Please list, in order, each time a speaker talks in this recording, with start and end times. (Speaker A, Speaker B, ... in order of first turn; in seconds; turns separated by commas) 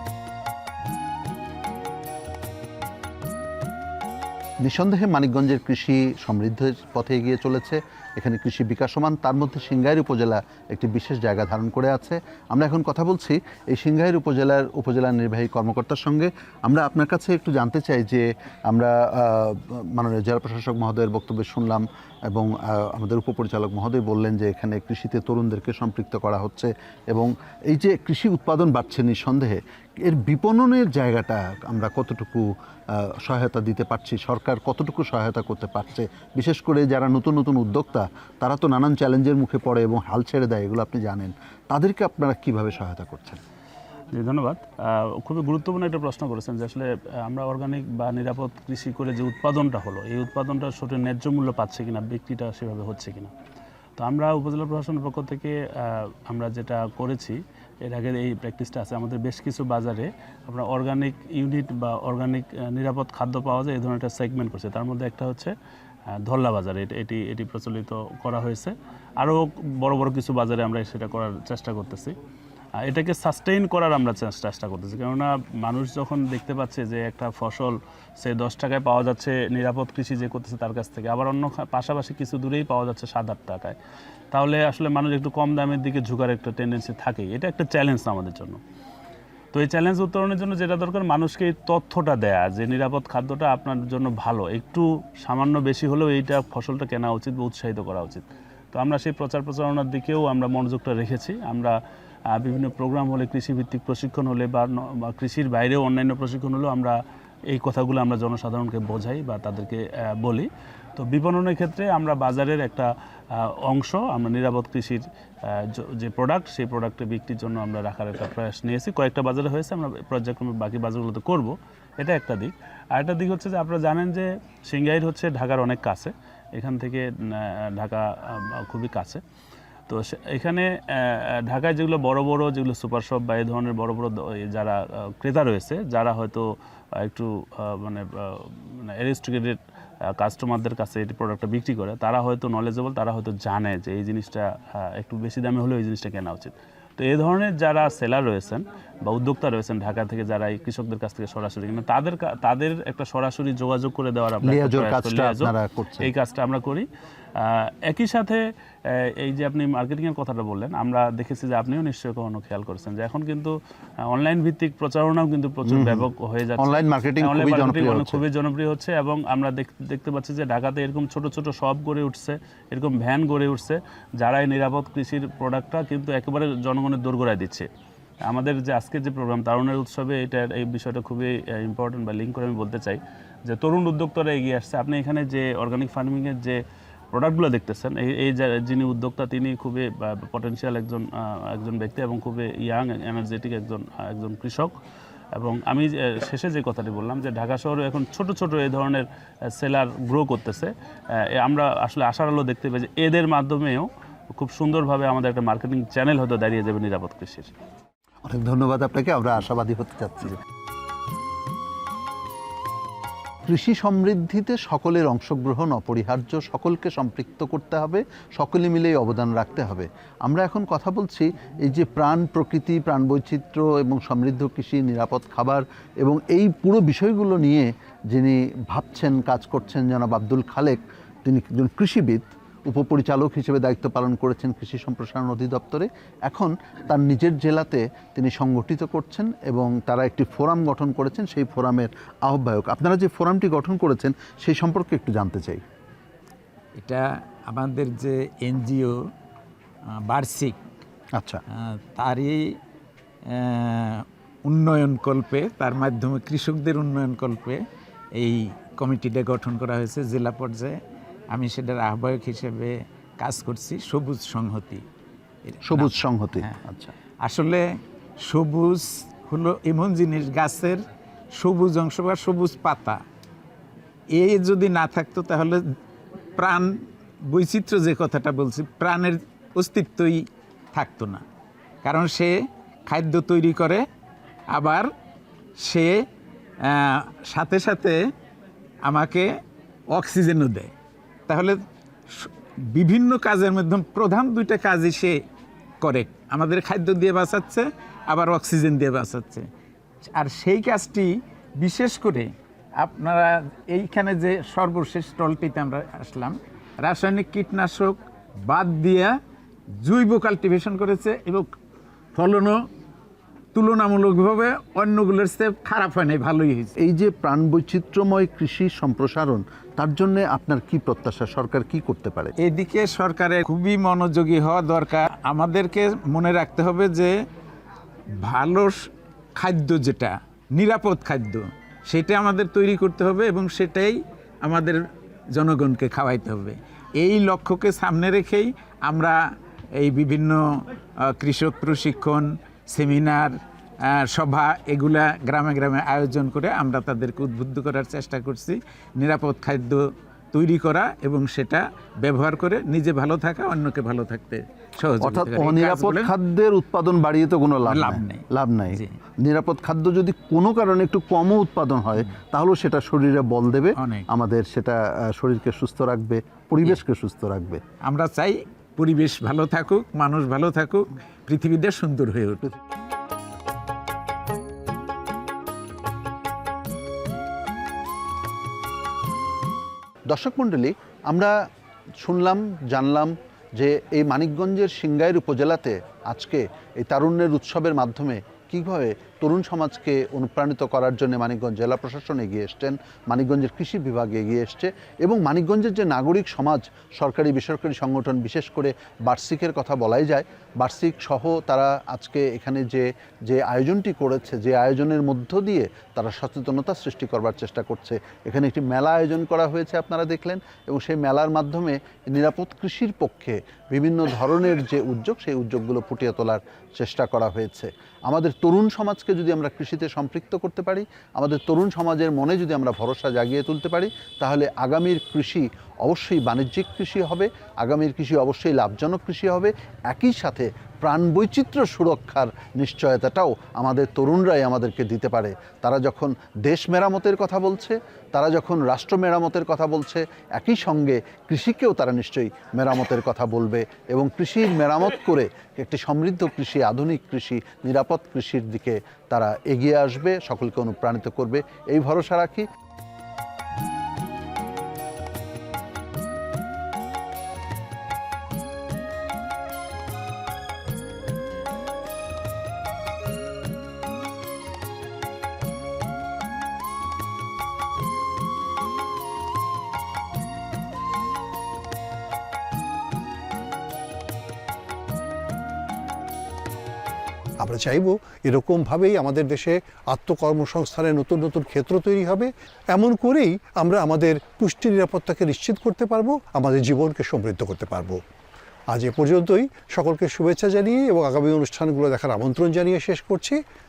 Speaker A: 4.6-43.4, Speaker B: 44.1-53.3, Speaker B: 54.0-65.5, Speaker B: 66.3-72.1, Speaker B: 72.8-83.8, Speaker B: 84.3-88.6, Speaker B: 89.5-101.7, Speaker B: 102.3-107.0, Speaker B: 107.5-129.2, Speaker B: 129.9-139.6, Speaker B: 140.2-155.5, Speaker A: 154.4-156.1, Speaker B: 156.0-156.9, Speaker B: 157.4-158.4, Speaker B: 159.2-163.5, Speaker B: 164.1-177.7, Speaker A: 165.7-166.1, Speaker A: 166.6-168.2, Speaker B: 178.3-186.6, Speaker B: 187.1-194.7, Speaker B: 195.4-199.1, Speaker B: 199.6-200.7, Speaker B: 201.4-207.5, Speaker A: 208.2-210.4, Speaker A: 213.5-245.6, Speaker C: 246.8-249.0, Speaker C: 250.1-250.6, Speaker A: 251.2-251.4, Speaker C: 251.8-252.4, Speaker C: 253.3-257.6, Speaker C: 258.2-260.8, Speaker C: 261.3-264.8, Speaker C: 265.5-266.5, Speaker A: 265.6-266.9, Speaker C: 267.2-267.6, Speaker C: 268.2-270.8, Speaker C: 271.4-273.0, Speaker C: 274.2-275.6, Speaker C: 276.4-276.7, Speaker C: 277.3-281.2, Speaker C: 281.8-282.3, Speaker C: 282.9-283.8, Speaker C: 284.5-284.9, Speaker C: 285.6-286.0, Speaker C: 286.7-288.0, Speaker C: 288.9-289.3, Speaker C: 289.9-290.7, Speaker C: 291.3-291.6, Speaker C: 292.2-295.2, Speaker C: 295.8-299.4, Speaker C: 300.1-309.2, Speaker C: 309.8-311.5, Speaker C: 312.1-312.6, Speaker C: 313.6-316.7, Speaker A: 316.8-322.3, Speaker C: 322.4-327.1, Speaker C: 328.2-328.8, Speaker C: 329.4-334.8, Speaker C: 335.3-339.2, Speaker C: 339.8-340.4, Speaker C: 341.1-343.3, Speaker C: 343.9-349.8, Speaker C: 350.3-356.1, Speaker A: 355.0-367.6, Speaker C: 357.7-358.2, Speaker C: 363.8-364.1, Speaker C: 367.9-372.5, Speaker A: 380.1-381.3, Speaker A: 382.0-452.4, Speaker D: 477.4-488.0, Speaker D: 488.7-493.4